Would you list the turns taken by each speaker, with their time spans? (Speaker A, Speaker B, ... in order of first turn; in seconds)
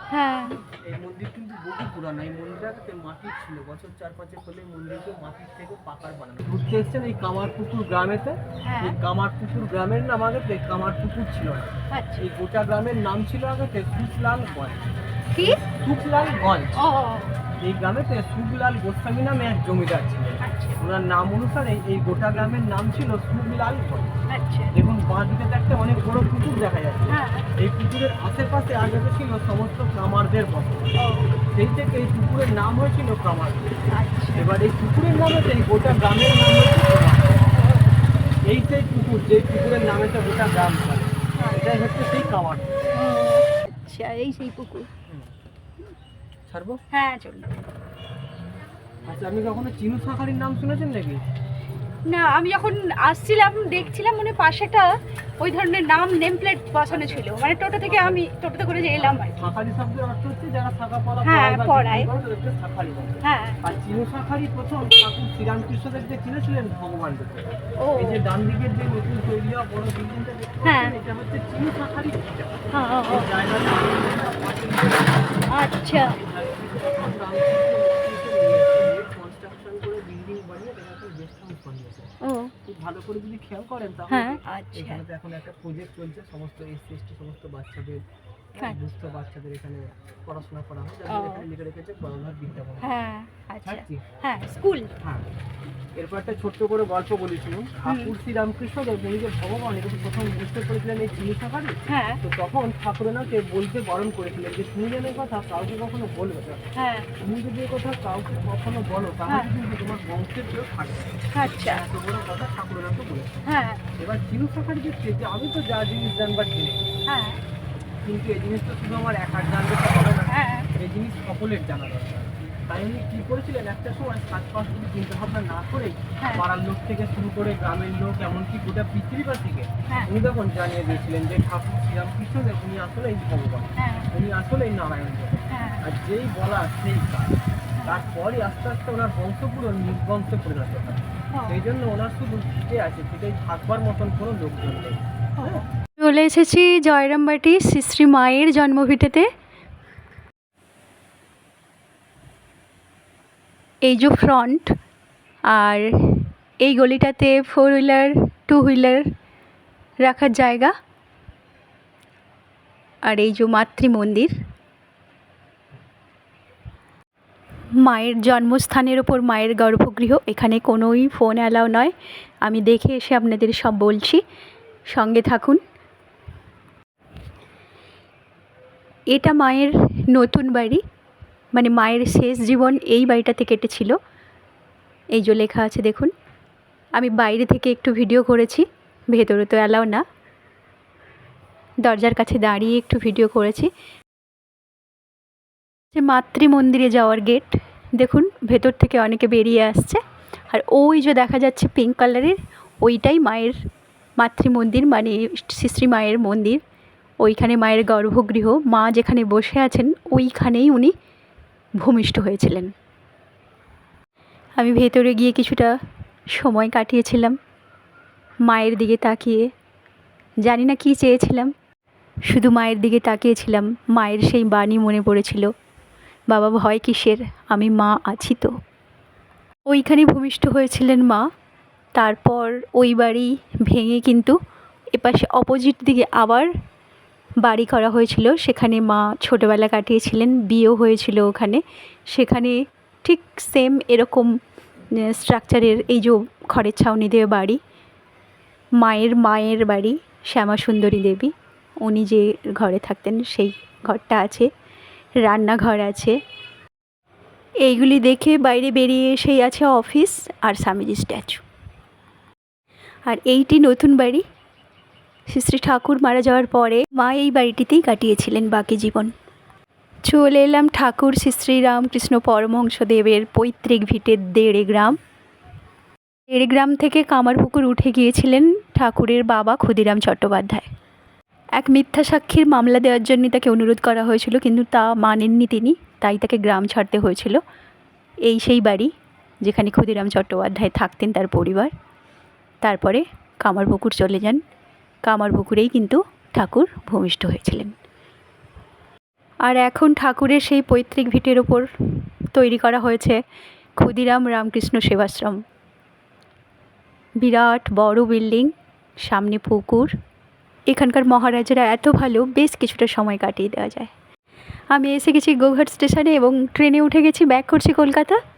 Speaker A: 0.1-0.5, 8.6-9.0, 11.9-12.2, 16.8-17.3, 20.4-20.8, 24.3-24.7, 27.1-27.5, 31.0-31.4, 33.9-34.5, 37.5-37.9, 41.4-41.6, 42.9-44.9, 46.9-47.5, 52.1-59.5, 61.2-62.1, 63.2-63.6, 67.8-68.2, 70.6-71.0, 72.7-73.3, 75.5-76.2, 82.2-82.5, 84.1-85.0, 91.1-91.5, 92.8-94.9, 97.9-98.1, 101.9-102.2, 106.8-107.1, 111.3-111.8, 113.5-113.8, 117.1-117.4, 120.3-120.7, 133.8-134.1, 135.5-135.8, 137.8-138.1, 141.3-141.6, 145.4-145.7
Speaker B: 0.6-14.9, 15.4-16.8, 17.6-24.1, 24.7-30.9, 31.5-33.8, 34.3-37.5, 38.4-43.0, 45.1-45.3, 46.5-46.8, 49.0-51.2, 53.7-54.0, 56.9-58.2, 58.9-82.1, 82.6-88.0, 88.5-92.9, 93.6-94.2, 95.0-95.2, 96.0-106.6, 107.2-113.4, 114.0-116.9, 118.0-137.3, 137.8-145.6
Speaker C: 146.0-149.2, 153.8-154.7, 155.5-159.0, 160.0-160.7, 163.1-164.3, 167.8-174.2, 174.9-175.6, 179.1-180.8, 181.5-183.9, 185.1-186.1, 187.0-190.0, 191.8-193.7, 195.9-203.6, 204.2-206.6, 207.2-210.9, 211.8-212.7, 214.6-215.7, 216.3-217.3, 218.4-219.4, 220.4-221.5, 222.3-225.5, 226.3-228.5, 229.7-231.2, 231.9-234.3, 234.9-236.5, 237.4-244.3, 245.0-247.6, 248.8-251.3, 251.8-254.5, 255.2-256.2, 257.6-261.4, 263.1-264.2, 265.3-269.1, 270.1-275.0, 276.3-280.7, 281.6-287.4, 288.2-288.9, 289.4-291.7, 292.6-294.4, 295.1-297.7, 299.4-301.7, 302.3-303.2, 303.8-305.4, 307.2-308.5, 309.0-309.9, 310.7-313.9, 314.7-318.2